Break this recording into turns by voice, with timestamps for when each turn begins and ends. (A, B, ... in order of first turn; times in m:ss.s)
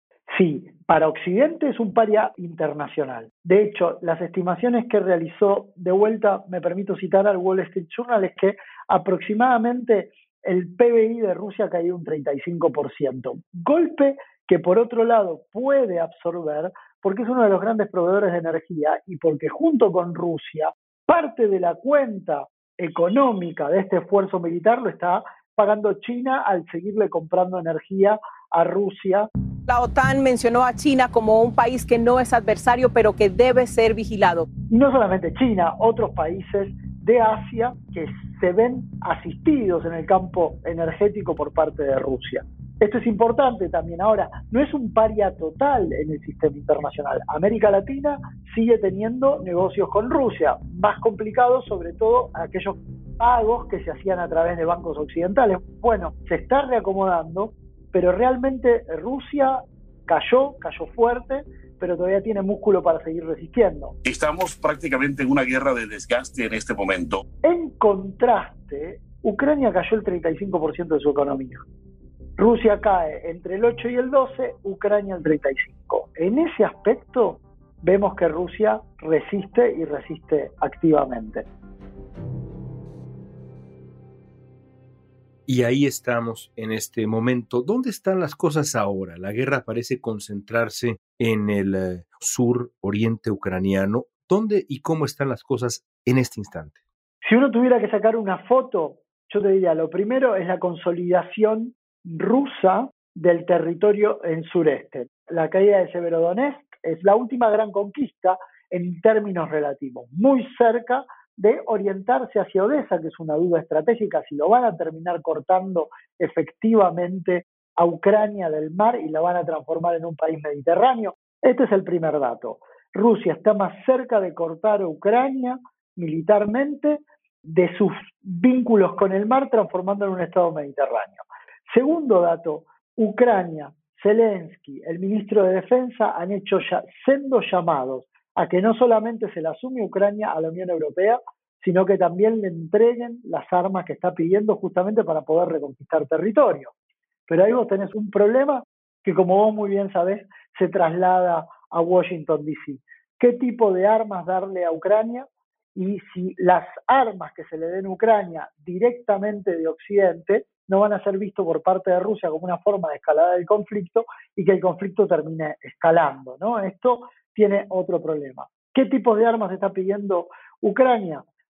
0:00.3-0:29.3 A
0:29.7-0:34.5 B
0:34.7-1:03.9 A
1:04.0-1:07.2 C
1:07.4-1:11.6 A
1:12.4-1:21.5 A
1:25.5-1:36.8 D
1:37.2-2:26.7 A
2:27.3-2:51.2 A